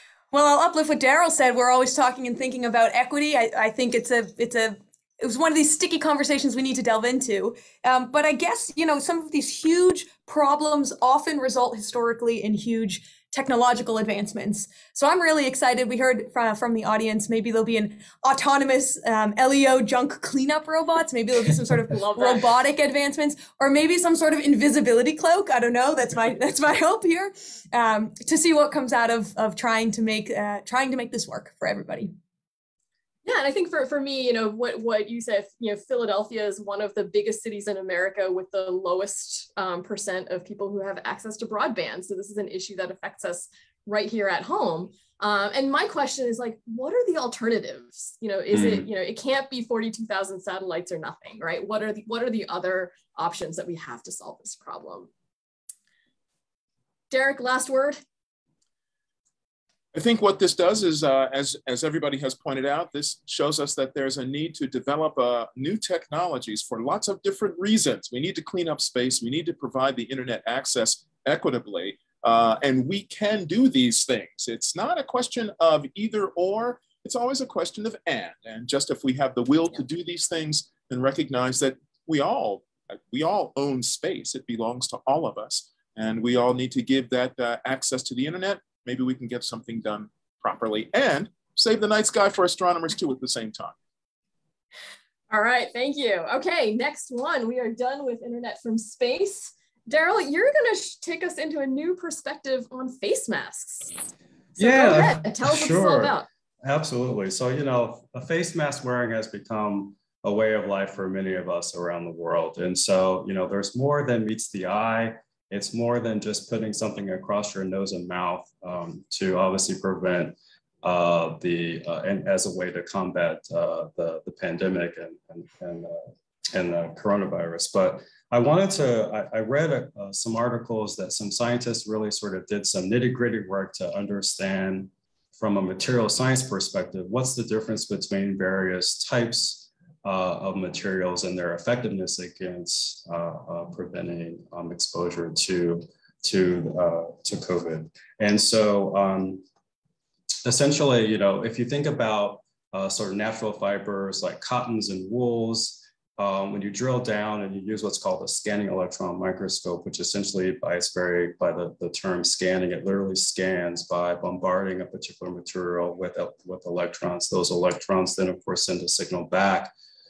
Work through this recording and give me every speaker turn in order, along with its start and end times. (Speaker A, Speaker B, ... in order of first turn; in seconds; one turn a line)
Speaker A: 0.3-32.1
Speaker B: 21.9-22.4
Speaker B: 33.2-55.1
Speaker C: 48.5-48.9
Speaker B: 57.1-58.0
Speaker D: 59.9-93.8
Speaker B: 95.3-106.2
Speaker C: 104.6-149.4
Speaker C: 150.4-169.7